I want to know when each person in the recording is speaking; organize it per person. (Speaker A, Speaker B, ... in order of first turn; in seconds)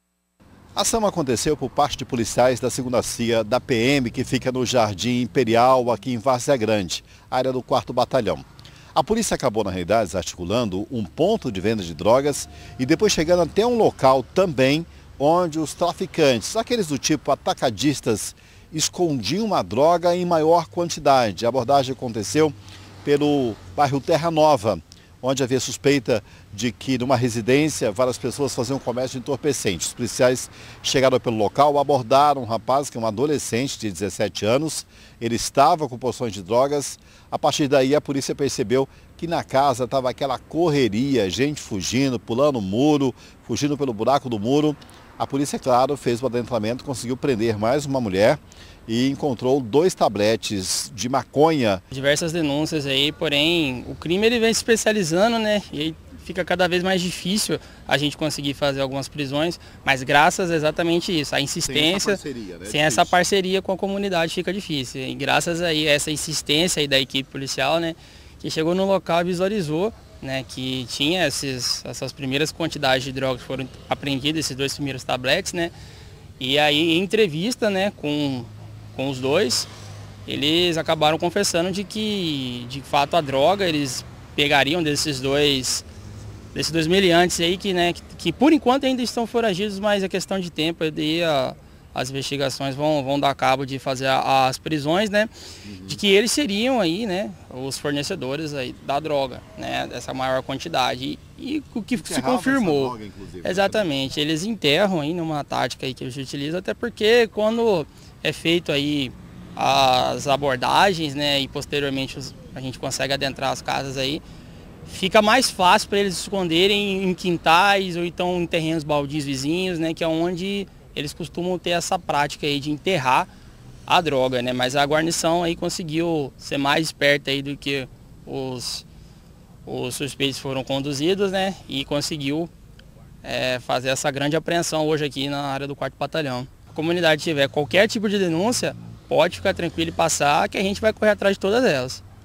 Speaker A: 0.7-51.8, 61.6-63.1, 95.6-96.0, 101.9-103.9
Speaker B: 51.9-75.7, 76.4-79.7, 80.2-85.8, 86.5-95.3, 95.9-114.2, 114.9-123.3, 123.9-128.8, 129.7-132.5, 133.2-142.0